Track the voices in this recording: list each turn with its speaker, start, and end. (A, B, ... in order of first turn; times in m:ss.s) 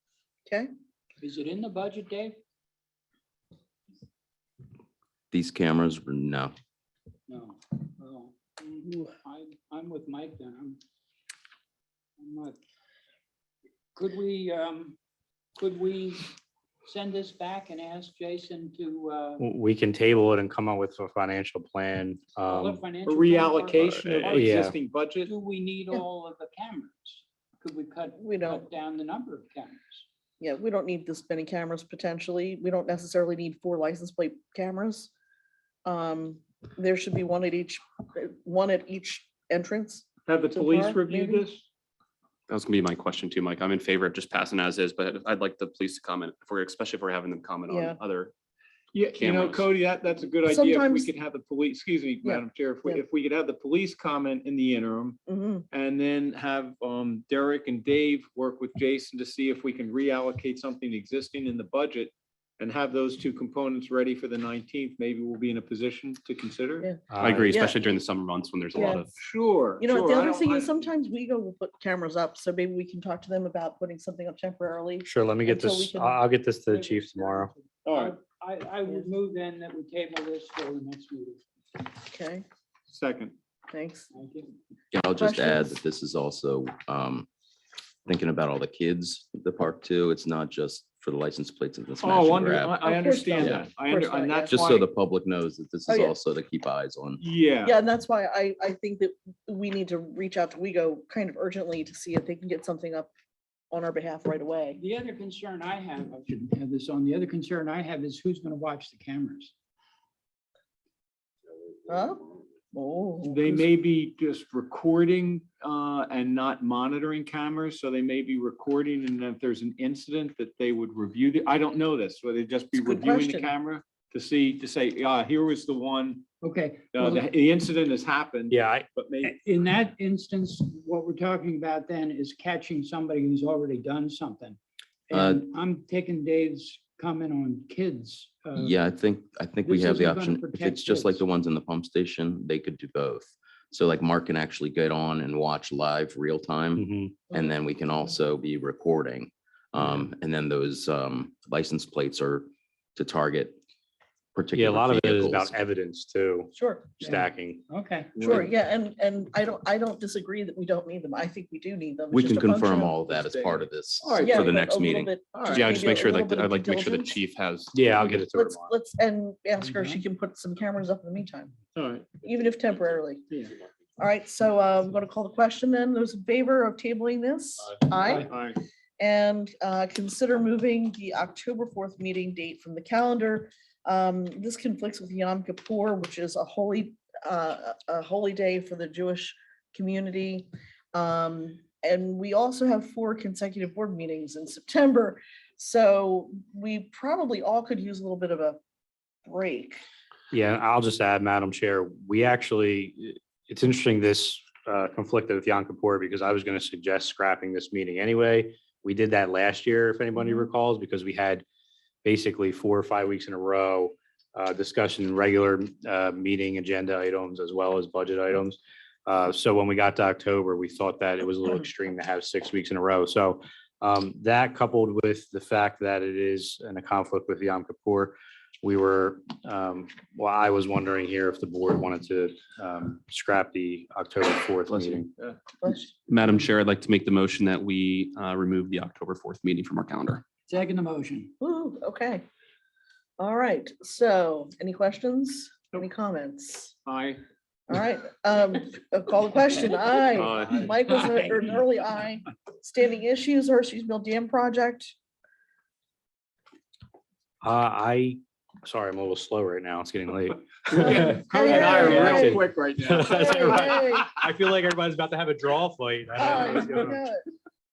0:01.2-0:02.4 A
0:05.3-0:06.5 B
0:07.3-0:10.8 A
0:12.2-0:12.6 A
0:13.9-0:15.0 A
0:15.6-0:19.4 A
0:19.4-0:22.8 C
0:22.4-0:30.0 A
0:23.0-0:25.3 D
0:24.2-0:24.7 C
0:28.2-0:28.6 E
0:30.4-0:35.1 E
0:35.8-0:41.4 E
0:40.3-0:41.6 D
0:42.5-0:48.3 F
0:47.7-0:48.0 E
0:48.9-0:55.2 D
0:49.1-0:49.7 F
0:50.5-0:51.1 E
0:52.2-0:53.0 E
0:55.3-0:55.6 E
0:55.7-1:06.9 D
1:06.8-1:07.8 E
1:07.1-1:07.5 C
1:07.2-1:09.1 F
1:08.7-1:09.0 E
1:09.2-1:10.8 D
1:09.8-1:16.2 E
1:15.0-1:17.5 C
1:16.7-1:21.4 A
1:17.8-1:18.2 D
1:22.0-1:22.4 E
1:22.9-1:23.3 D
1:23.7-1:24.1 E
1:24.1-1:24.5 A
1:24.9-1:27.3 B
1:25.2-1:25.6 E
1:28.0-1:32.8 B
1:32.0-1:34.9 D
1:32.8-1:34.6 E
1:34.5-1:37.2 B
1:35.9-1:36.1 E
1:37.2-1:37.7 D
1:37.6-1:43.1 E
1:43.7-1:44.8 E
1:44.8-1:49.5 A
1:51.9-1:52.2 E
1:52.7-1:53.6 E
1:53.2-2:06.2 D
2:02.8-2:03.5 E
2:06.4-2:07.2 A
2:06.9-2:09.4 D
2:08.5-2:08.8 C
2:09.2-2:18.8 A
2:15.1-2:15.4 B
2:18.6-2:33.6 B
2:19.6-2:21.2 A
2:26.8-2:27.2 C
2:34.3-2:35.6 B
2:34.5-2:37.6 C
2:36.5-2:37.0 E
2:37.0-2:38.2 A
2:38.2-2:38.5 D
2:38.2-2:43.0 E
2:42.1-2:45.1 B
2:43.1-2:44.5 D
2:44.2-2:47.2 E
2:45.3-2:45.6 D
2:45.5-2:48.0 F
2:47.7-2:48.7 C
2:48.0-2:51.5 E
2:49.6-2:50.0 A
2:51.7-2:52.1 D
2:52.2-2:53.3 E
2:54.0-2:58.3 E
2:58.1-2:58.6 D
2:59.0-3:18.6 E
3:19.3-3:19.8 E
3:20.3-3:31.4 C
3:30.2-3:30.4 E
3:32.0-3:55.1 C
3:54.7-3:55.0 F
3:55.6-3:55.9 E
3:56.1-4:00.2 F
4:00.5-4:01.3 A
4:01.4-4:02.2 E
4:03.2-4:06.7 E
4:06.8-4:07.2 D
4:07.7-4:14.9 E
4:10.2-4:10.7 D
4:10.2-4:10.5 F
4:17.4-4:27.0 C
4:20.7-4:23.8 D
4:20.8-4:22.4 E
4:23.0-4:24.1 E
4:26.2-4:27.2 E